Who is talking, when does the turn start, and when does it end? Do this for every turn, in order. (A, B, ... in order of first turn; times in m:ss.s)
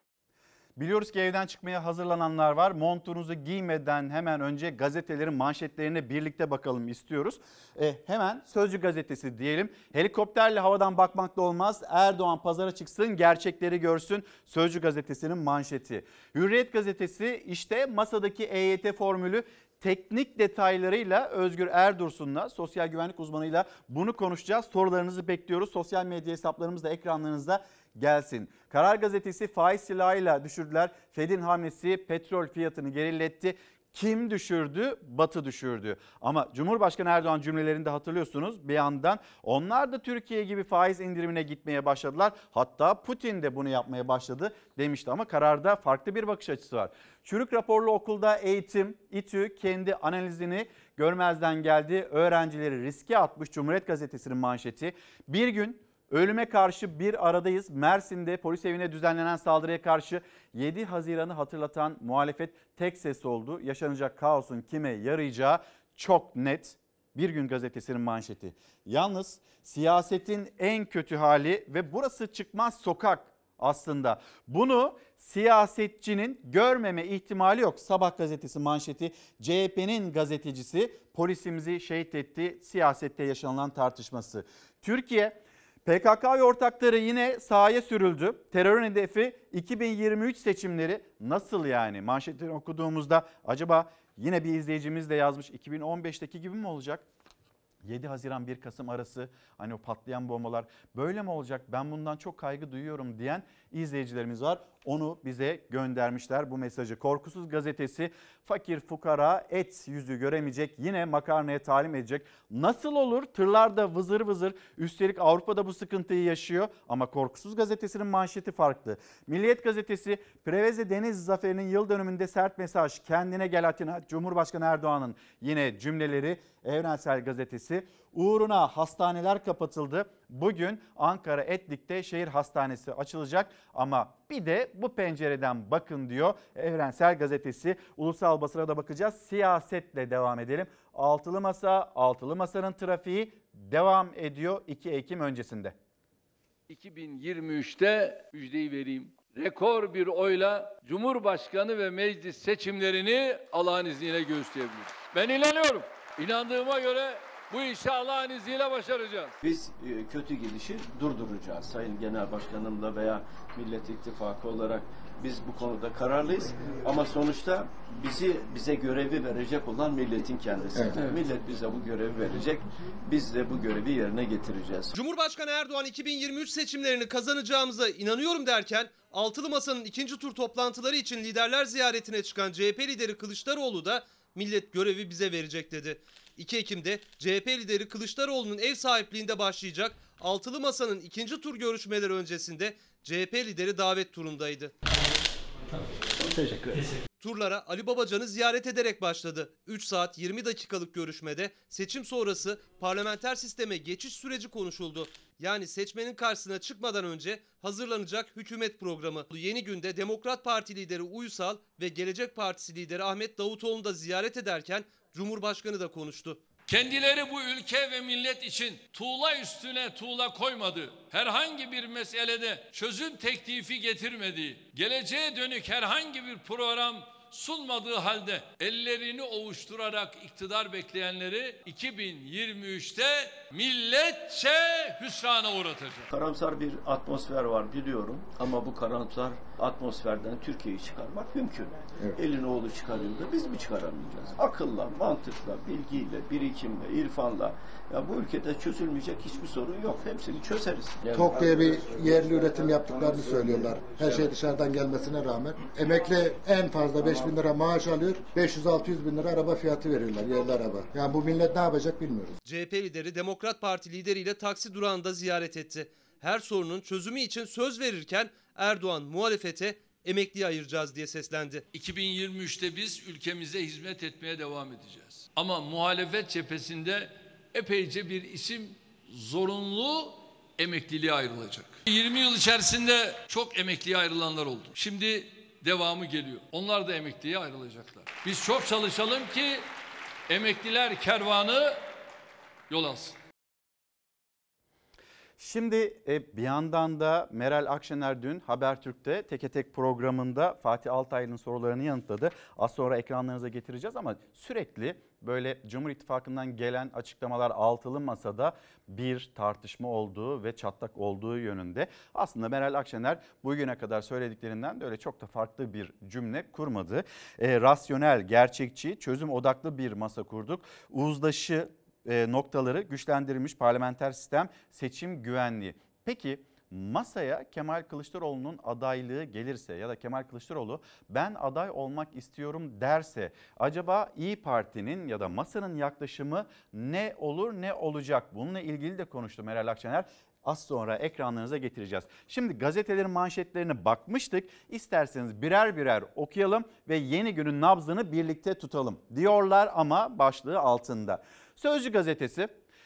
0:00.8-1:37.0 A
1:37.8-2:25.7 A
2:26.7-2:39.4 B
2:39.4-2:54.9 C
2:50.7-2:51.0 D
2:54.9-3:14.7 E
3:16.2-3:16.8 C
3:17.2-3:36.4 E
3:36.7-3:56.1 B
3:56.1-4:12.2 C
4:11.1-4:22.4 D
4:22.4-4:31.6 E
4:31.7-4:49.6 B
4:50.3-4:51.8 B
4:52.7-4:53.2 B
4:55.4-5:52.5 A